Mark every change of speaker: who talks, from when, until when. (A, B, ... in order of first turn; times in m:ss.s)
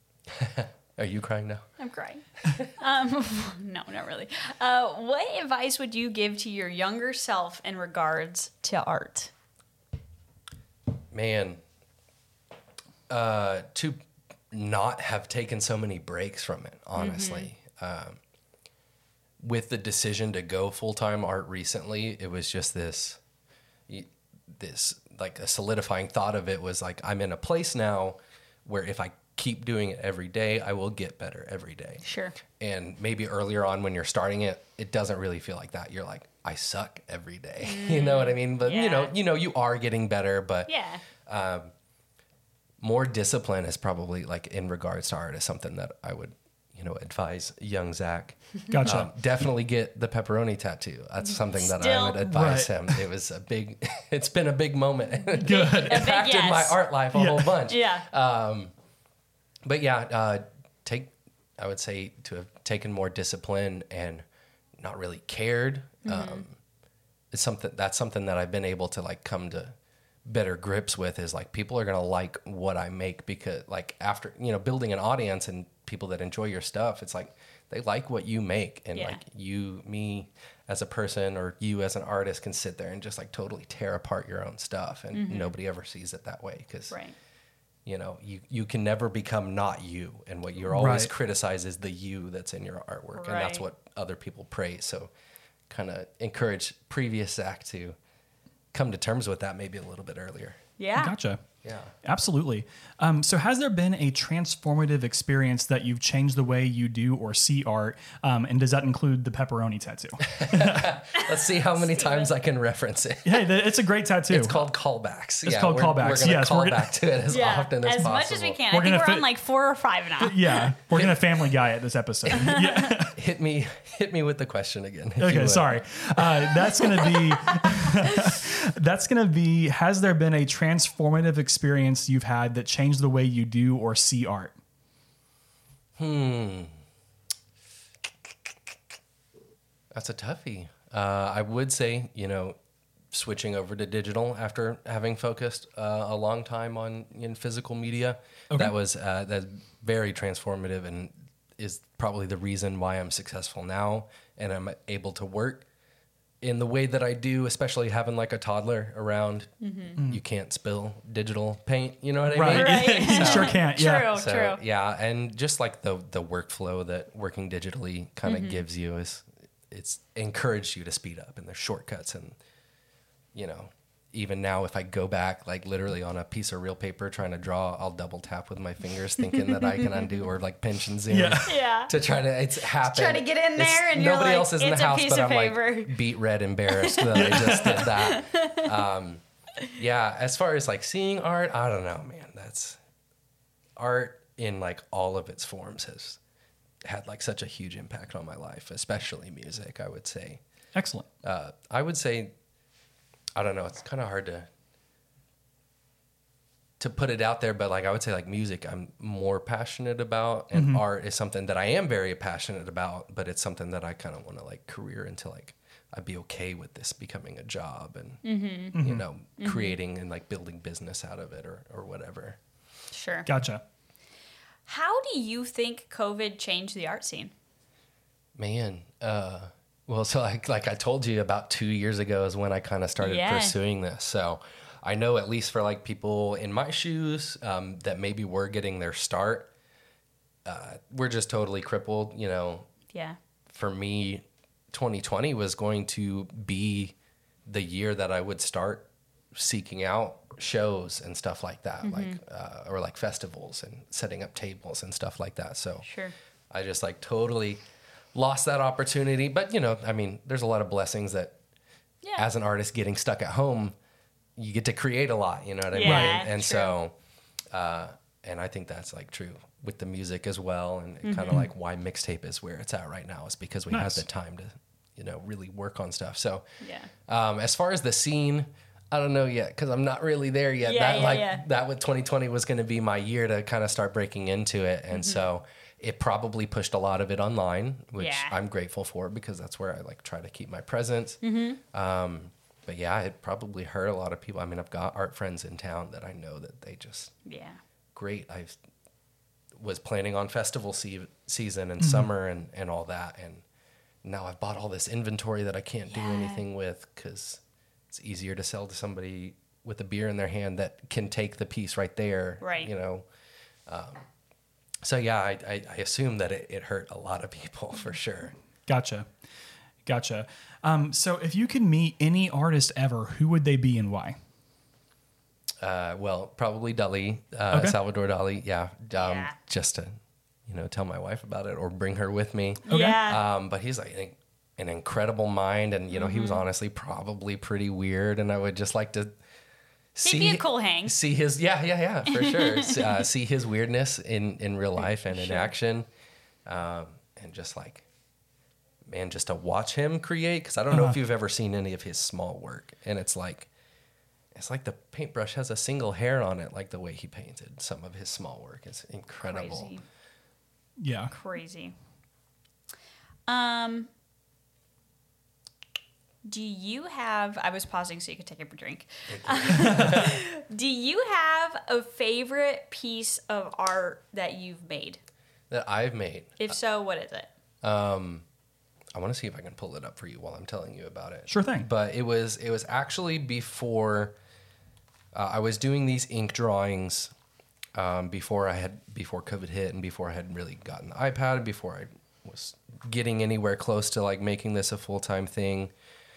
0:00.3-0:01.6 A
0:01.8-0:09.3 B
0:11.1-0:11.6 A
0:13.1-0:14.0 A
0:14.5-0:18.2 A
0:17.0-0:17.5 B
0:19.4-0:23.2 A
0:23.9-0:32.0 A
0:32.0-0:32.3 B
0:32.6-0:41.7 A
0:37.6-0:39.1 B
0:40.7-0:41.0 B
0:42.8-0:58.7 A
0:48.7-0:49.1 C
0:51.2-0:52.2 B
0:52.2-0:53.0 C
0:55.4-0:56.8 B
0:55.4-0:56.1 C
0:57.1-0:57.6 C
0:57.7-0:58.0 B
0:59.6-1:04.2 A
1:04.8-1:06.6 A
1:06.0-1:06.4 B
1:07.3-1:09.7 A
1:10.2-1:27.0 A
1:18.9-1:19.2 B
1:25.1-1:25.5 B
1:26.9-1:27.1 B
1:27.8-1:35.1 A
1:30.7-1:31.1 C
1:33.1-1:33.6 B
1:35.7-1:38.0 A
1:38.7-1:40.6 A
1:40.8-1:41.1 B
1:41.0-1:41.4 C
1:41.6-1:41.9 A
1:42.0-1:51.0 C
1:50.2-1:53.5 A
1:51.1-1:52.3 B
1:53.2-1:54.6 C
1:54.3-1:58.6 A
1:55.4-1:56.9 C
1:57.3-2:00.7 B
1:58.7-1:59.3 C
2:00.2-2:03.2 C
2:00.9-2:01.3 A
2:02.3-2:06.2 A
2:02.3-2:02.9 B
2:05.2-2:14.5 C
2:06.6-2:08.3 B
2:16.0-2:16.7 A
2:19.9-2:22.6 A
2:23.1-2:35.6 A
2:36.4-2:52.4 A
2:39.6-2:40.0 B
2:42.3-2:44.1 C
2:42.5-2:44.6 B
2:48.2-2:48.6 B
2:53.3-3:09.2 A
3:01.1-3:01.6 C
3:01.4-3:01.9 B
3:02.8-3:06.0 B
3:06.7-3:07.3 B
3:07.1-3:07.9 C
3:07.8-3:08.7 B
3:09.7-3:12.8 A
3:13.8-3:16.2 A
3:16.8-3:20.4 A
3:20.7-3:21.0 C
3:21.2-3:22.3 A
3:23.4-3:24.5 A
3:26.8-3:38.2 A
3:30.5-3:30.8 C
3:38.2-3:38.8 B
3:38.7-3:39.0 C
3:38.7-3:42.4 A
3:39.4-3:39.8 B
3:42.9-3:43.3 B
3:43.2-3:43.6 C
3:44.6-3:47.3 B
3:48.4-3:59.5 A
3:53.0-3:53.6 B
4:00.4-4:02.7 A
4:03.5-4:06.9 A
4:07.4-4:15.8 A
4:11.8-4:12.2 B
4:15.8-4:16.1 B
4:16.5-4:17.6 A
4:18.1-4:21.4 A
4:22.2-4:23.8 A
4:24.4-4:26.9 A
4:25.7-4:26.7 B
4:25.8-4:26.2 C
4:27.5-4:36.4 A
4:31.0-4:31.4 B
4:33.7-4:34.0 C
4:36.6-4:36.9 B
4:37.1-4:51.2 A
4:40.6-4:41.4 B
4:44.9-4:45.2 B
4:48.0-4:48.4 B
4:51.2-4:51.6 B
4:51.7-4:57.1 A
4:57.2-4:57.6 B
4:57.9-4:58.6 A
4:59.6-5:03.4 A
5:01.8-5:02.1 C
5:04.0-5:13.1 A
5:05.9-5:06.4 B
5:12.4-5:12.7 B
5:13.7-5:14.0 A
5:14.8-5:18.3 A
5:18.7-5:19.0 C
5:19.8-5:24.2 C
5:25.6-5:39.1 A
5:29.0-5:29.3 B
5:32.6-5:33.2 B
5:32.7-5:33.0 C
5:35.9-5:36.4 B
5:39.9-5:45.9 A
5:40.0-5:40.9 B
5:42.1-5:43.0 B
5:45.1-5:45.5 B
5:46.4-5:47.8 A
5:48.9-5:53.5 A
5:50.7-5:51.0 C
5:54.3-5:59.7 A
5:59.2-5:59.8 B
6:00.8-6:01.1 C
6:01.1-6:01.7 B
6:03.3-6:03.9 B
6:06.2-6:15.0 B
6:09.1-6:10.2 A
6:15.5-6:16.5 A
6:16.4-6:17.3 B
6:17.6-6:18.2 A
6:18.9-6:24.2 A
6:21.3-6:21.7 C
6:25.1-6:27.1 A
6:27.7-6:35.7 A